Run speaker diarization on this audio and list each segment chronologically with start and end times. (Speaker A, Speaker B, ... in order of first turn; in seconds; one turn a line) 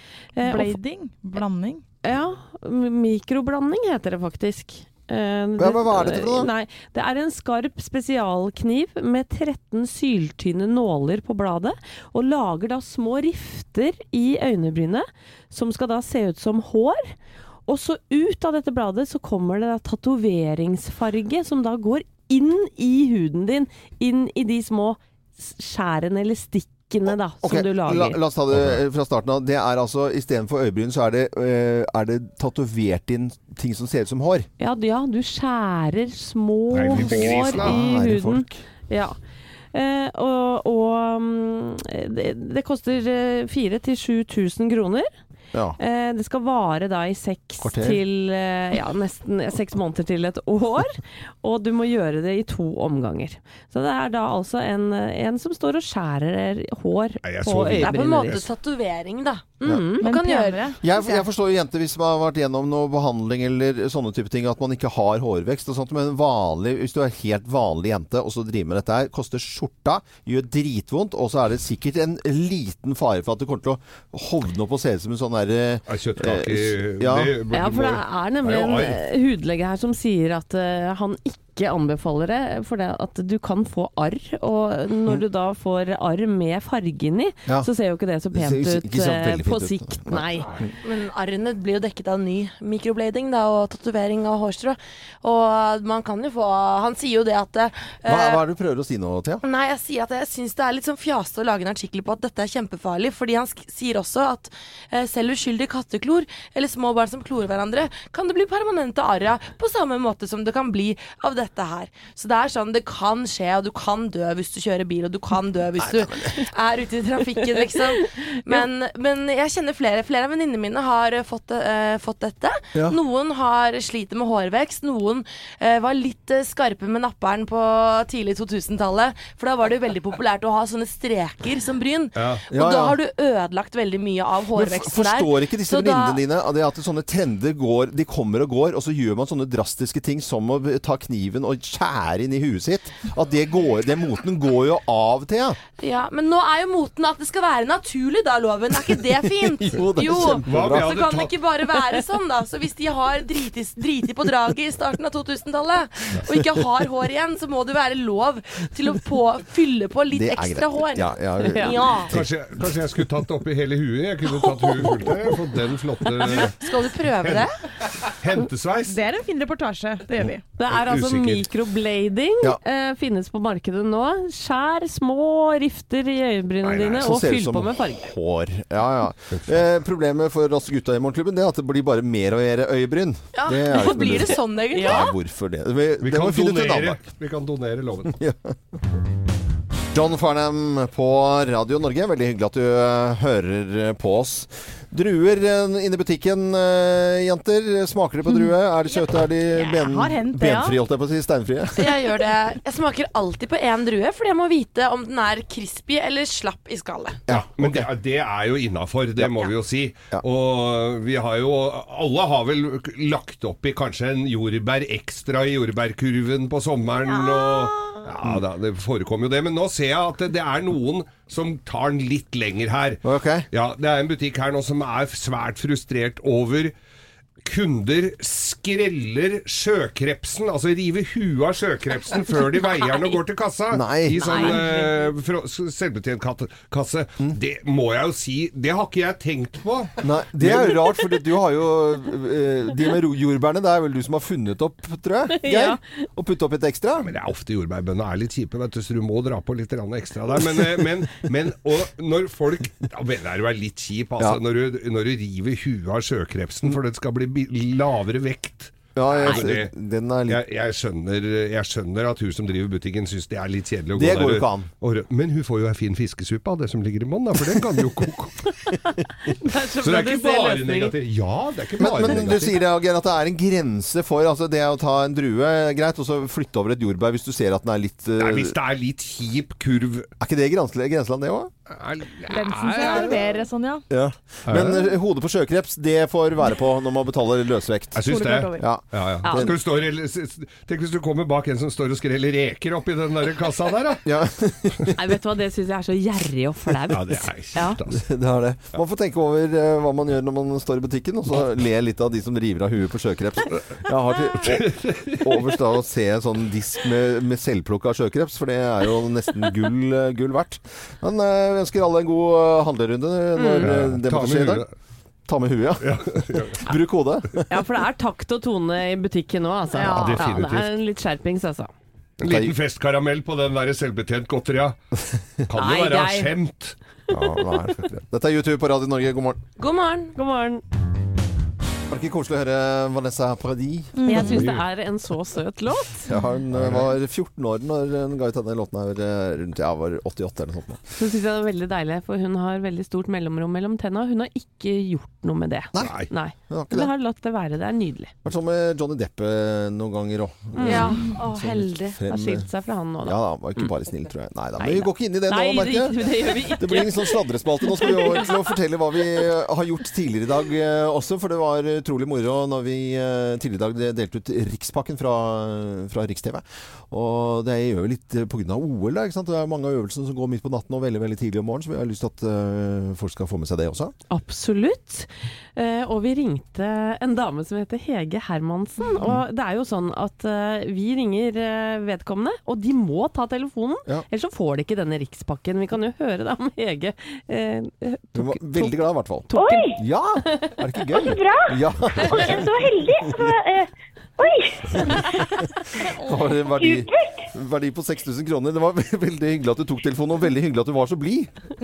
Speaker A: 0.4-0.8
Speaker B: 0.4-1.8
Speaker A: 2.0-17.1
Speaker C: 5.6-6.5
Speaker A: 17.7-28.2
Speaker C: 27.4-34.5
Speaker D: 28.5-28.8
Speaker A: 34.6-39.1
Speaker D: 36.7-37.8
Speaker C: 36.9-38.6
Speaker A: 39.7-45.1
Speaker A: 45.8-58.4
Speaker C: 47.6-48.0
Speaker D: 57.2-58.5
Speaker E: 57.7-60.7
Speaker A: 59.6-60.1
Speaker C: 59.6-59.9
Speaker B: 60.0-61.0
Speaker C: 60.8-77.4
Speaker D: 75.9-79.0
Speaker A: 77.5-90.5
Speaker C: 88.3-90.7
Speaker E: 90.8-98.4
Speaker C: 98.0-99.4
Speaker E: 99.4-136.2
Speaker C: 115.8-116.4
Speaker D: 132.2-132.4
Speaker C: 132.5-133.0
Speaker C: 134.6-145.6
Speaker E: 145.8-162.2
Speaker C: 149.1-151.0
Speaker D: 150.4-151.3
Speaker C: 160.1-162.3
Speaker A: 161.4-161.8
Speaker D: 162.1-167.5
Speaker E: 166.2-167.6
Speaker D: 168.0-169.0
Speaker B: 168.8-170.4
Speaker A: 170.6-178.1
Speaker D: 170.7-171.5
Speaker D: 176.6-177.1
Speaker C: 177.0-187.0
Speaker D: 179.3-179.6
Speaker E: 183.3-185.1
Speaker A: 184.7-185.1
Speaker D: 186.0-188.2
Speaker C: 188.1-188.5
Speaker C: 189.9-202.1
Speaker B: 199.5-200.8
Speaker E: 201.8-207.2
Speaker C: 207.3-207.9
Speaker D: 207.3-226.7
Speaker E: 217.1-217.5
Speaker C: 223.0-223.5
Speaker D: 227.4-241.0
Speaker C: 233.7-234.4
Speaker A: 234.1-234.9
Speaker C: 240.0-247.1
Speaker A: 245.3-245.8
Speaker D: 247.0-259.7
Speaker C: 258.9-260.4
Speaker D: 260.3-268.5
Speaker C: 263.9-264.7
Speaker A: 269.2-270.9
Speaker D: 269.8-272.6
Speaker C: 271.8-278.6
Speaker A: 271.9-272.3
Speaker D: 278.2-280.1
Speaker C: 280.2-281.5
Speaker D: 281.7-283.4
Speaker B: 282.3-283.9
Speaker C: 283.9-289.6
Speaker D: 284.5-284.9
Speaker D: 287.9-294.0
Speaker B: 288.1-288.7
Speaker A: 289.2-289.5
Speaker C: 294.0-295.0
Speaker A: 295.0-297.8
Speaker D: 296.9-298.1
Speaker C: 297.9-314.6
Speaker D: 304.4-305.5
Speaker A: 313.4-313.7
Speaker D: 313.6-314.7
Speaker C: 315.3-317.5
Speaker D: 315.8-316.7
Speaker A: 317.5-321.7
Speaker D: 319.8-320.8
Speaker E: 319.9-320.2
Speaker D: 322.2-324.8
Speaker C: 322.2-322.5
Speaker D: 325.5-326.8
Speaker A: 325.6-326.3
Speaker C: 327.1-329.4
Speaker E: 329.6-330.1
Speaker A: 330.1-330.6
Speaker C: 331.9-334.4
Speaker B: 334.0-334.4
Speaker A: 334.0-336.1
Speaker D: 334.2-334.6
Speaker C: 336.1-340.9
Speaker D: 336.5-336.9
Speaker A: 341.0-348.1
Speaker C: 345.7-346.9
Speaker D: 345.8-346.1
Speaker C: 348.2-352.5
Speaker A: 350.6-353.7
Speaker D: 350.6-350.9
Speaker C: 353.0-373.9
Speaker A: 354.6-358.4
Speaker A: 374.1-389.7
Speaker C: 379.0-379.2
Speaker C: 388.1-393.3
Speaker F: 389.3-389.8
Speaker F: 390.9-395.3
Speaker D: 392.0-392.4
Speaker C: 395.8-401.3
Speaker F: 396.5-397.2